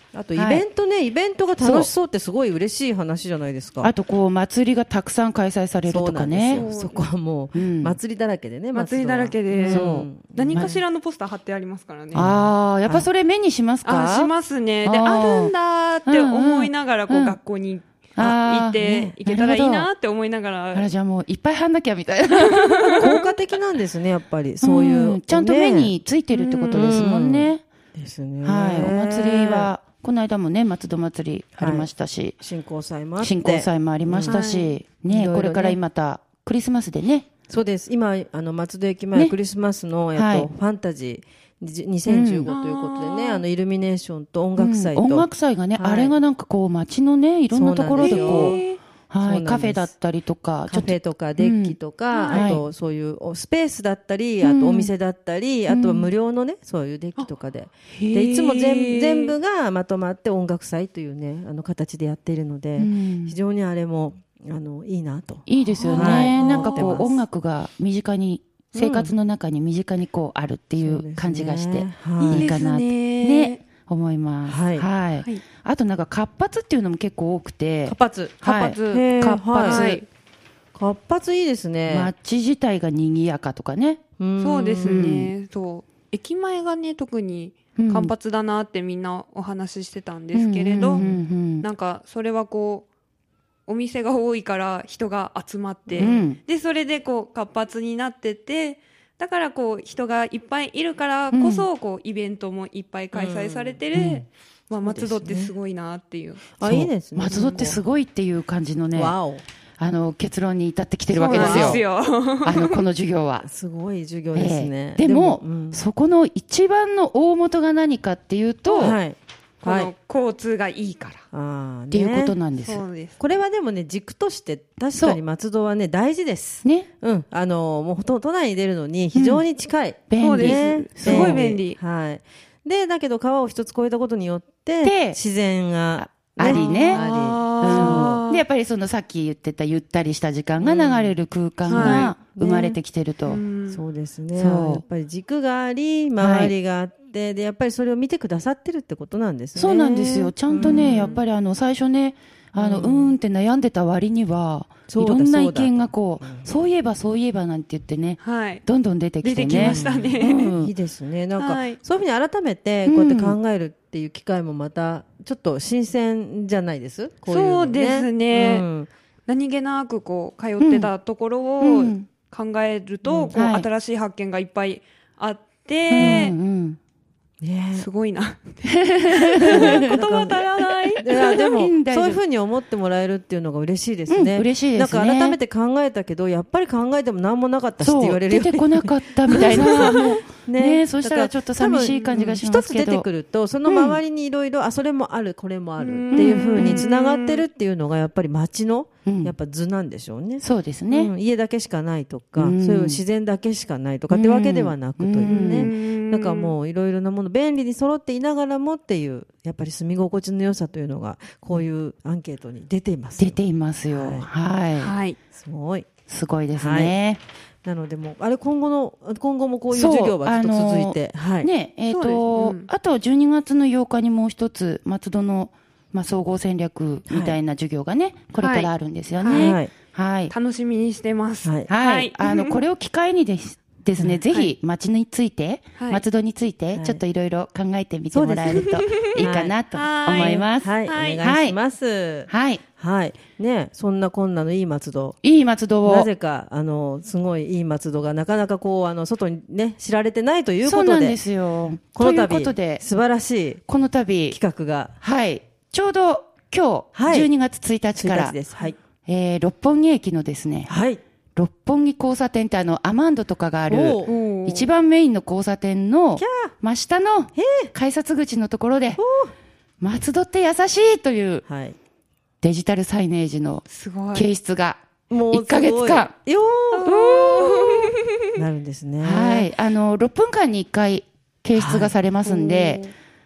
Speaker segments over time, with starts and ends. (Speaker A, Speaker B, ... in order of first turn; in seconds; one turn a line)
Speaker A: 0.1-3.9
Speaker B: 0.3-0.7
Speaker B: 1.6-1.9
Speaker B: 3.8-6.7
Speaker A: 5.8-10.8
Speaker C: 6.5-7.1
Speaker B: 7.5-8.0
Speaker C: 8.7-12.3
Speaker B: 9.5-10.7
Speaker A: 12.1-13.1
Speaker B: 12.1-14.3
Speaker C: 13.8-20.9
Speaker B: 14.8-15.5
Speaker B: 16.1-17.4
Speaker B: 18.2-19.9
Speaker B: 20.7-23.1
Speaker C: 22.4-23.1
Speaker A: 23.0-25.9
Speaker B: 24.6-27.6
Speaker C: 26.3-26.9
Speaker A: 26.7-29.7
Speaker B: 28.4-32.4
Speaker A: 31.6-31.9
Speaker A: 32.4-35.8
Speaker B: 33.2-37.3
Speaker C: 34.3-34.7
Speaker A: 37.5-46.2
Speaker B: 40.1-40.5
Speaker B: 42.1-42.5
Speaker C: 42.5-43.4
Speaker B: 44.6-51.8
Speaker A: 47.5-48.6
Speaker C: 48.0-48.8
Speaker A: 49.2-49.9
Speaker A: 50.7-67.2
Speaker C: 52.1-52.5
Speaker B: 52.3-52.6
Speaker B: 54.4-54.9
Speaker B: 55.7-56.1
Speaker B: 57.9-59.1
Speaker B: 62.8-63.4
Speaker B: 65.5-80.0
Speaker C: 65.8-67.0
Speaker A: 68.8-69.1
Speaker A: 70.8-73.6
Speaker A: 74.5-74.9
Speaker A: 77.9-79.9
Speaker C: 78.4-80.1
Speaker A: 80.8-82.1
Speaker B: 81.9-84.0
Speaker A: 84.2-85.2
Speaker C: 84.4-91.0
Speaker B: 84.8-85.3
Speaker B: 87.8-88.1
Speaker B: 90.3-91.7
Speaker A: 91.0-91.2
Speaker C: 91.6-92.9
Speaker C: 93.7-106.5
Speaker A: 95.9-96.3
Speaker B: 96.0-96.4
Speaker B: 101.3-101.7
Speaker A: 103.1-104.1
Speaker B: 103.9-104.2
Speaker A: 104.8-105.5
Speaker A: 106.6-107.8
Speaker B: 106.6-109.2
Speaker C: 107.3-107.7
Speaker A: 108.9-109.4
Speaker B: 109.8-111.8
Speaker C: 111.1-112.8
Speaker A: 111.3-111.8
Speaker B: 112.4-113.5
Speaker A: 113.4-115.8
Speaker B: 114.3-119.0
Speaker A: 118.8-119.9
Speaker C: 119.6-121.2
Speaker A: 121.3-122.4
Speaker B: 121.9-122.8
Speaker C: 122.6-123.2
Speaker A: 123.2-138.2
Speaker B: 125.0-125.2
Speaker B: 129.1-129.4
Speaker B: 130.1-131.5
Speaker C: 130.2-131.8
Speaker B: 134.8-135.2
Speaker B: 136.0-137.1
Speaker C: 136.4-138.4
Speaker B: 137.6-143.4
Speaker A: 140.6-142.8
Speaker C: 141.7-142.1
Speaker C: 143.3-143.8
Speaker A: 143.7-151.2
Speaker B: 144.3-144.8
Speaker B: 146.2-146.5
Speaker B: 149.6-160.7
Speaker C: 150.6-151.2
Speaker A: 152.5-153.2
Speaker A: 154.9-156.5
Speaker C: 158.2-158.6
Speaker C: 159.2-160.5
Speaker A: 159.6-168.9
Speaker C: 161.4-161.8
Speaker B: 162.9-163.4
Speaker C: 167.3-168.7
Speaker C: 169.3-176.3
Speaker B: 170.6-170.9
Speaker B: 171.6-172.1
Speaker A: 173.1-173.3
Speaker B: 173.3-173.7
Speaker B: 175.9-176.8
Speaker A: 176.0-176.3
Speaker A: 177.4-177.9
Speaker C: 177.7-181.2
Speaker B: 178.9-179.8
Speaker A: 179.5-213.4
Speaker B: 181.1-182.2
Speaker B: 184.1-185.4
Speaker B: 187.8-193.1
Speaker C: 189.6-190.0
Speaker B: 193.7-194.0
Speaker C: 195.8-197.4
Speaker B: 196.1-196.9
Speaker B: 199.1-199.3
Speaker B: 200.4-201.1
Speaker B: 202.4-203.0
Speaker B: 204.1-205.7
Speaker C: 205.2-206.5
Speaker B: 213.2-214.9
Speaker A: 213.9-214.3
Speaker C: 214.8-215.2
Speaker A: 215.3-215.9
Speaker B: 216.1-217.2
Speaker A: 216.5-216.9
Speaker A: 217.7-221.5
Speaker B: 219.7-230.3
Speaker C: 221.9-222.7
Speaker A: 227.1-227.4
Speaker C: 228.4-229.6
Speaker A: 229.3-229.7
Speaker C: 230.3-232.6
Speaker A: 231.4-231.7
Speaker B: 231.7-241.6
Speaker A: 234.0-234.2
Speaker C: 235.8-236.0
Speaker A: 236.8-237.0
Speaker A: 238.1-239.6
Speaker C: 238.5-239.1
Speaker C: 239.7-241.2
Speaker A: 240.1-245.2
Speaker B: 242.3-242.6
Speaker B: 245.2-246.1
Speaker A: 245.8-251.2
Speaker B: 250.6-252.8
Speaker A: 251.9-253.6
Speaker B: 253.7-254.4
Speaker A: 254.3-254.9
Speaker B: 255.0-258.4
Speaker A: 256.9-257.3
Speaker A: 258.0-258.8
Speaker B: 259.1-260.7
Speaker A: 260.7-261.0
Speaker B: 261.4-269.0
Speaker A: 263.7-264.1
Speaker C: 264.1-264.7
Speaker A: 266.2-266.5
Speaker A: 267.4-267.7
Speaker A: 269.0-269.3
Speaker B: 269.8-271.4
Speaker A: 271.5-271.8
Speaker B: 272.4-276.1
Speaker C: 273.7-274.3
Speaker A: 275.1-277.0
Speaker C: 276.8-277.8
Speaker B: 276.8-277.7
Speaker A: 278.3-279.5
Speaker B: 279.0-282.8
Speaker A: 281.5-281.9
Speaker C: 282.2-282.9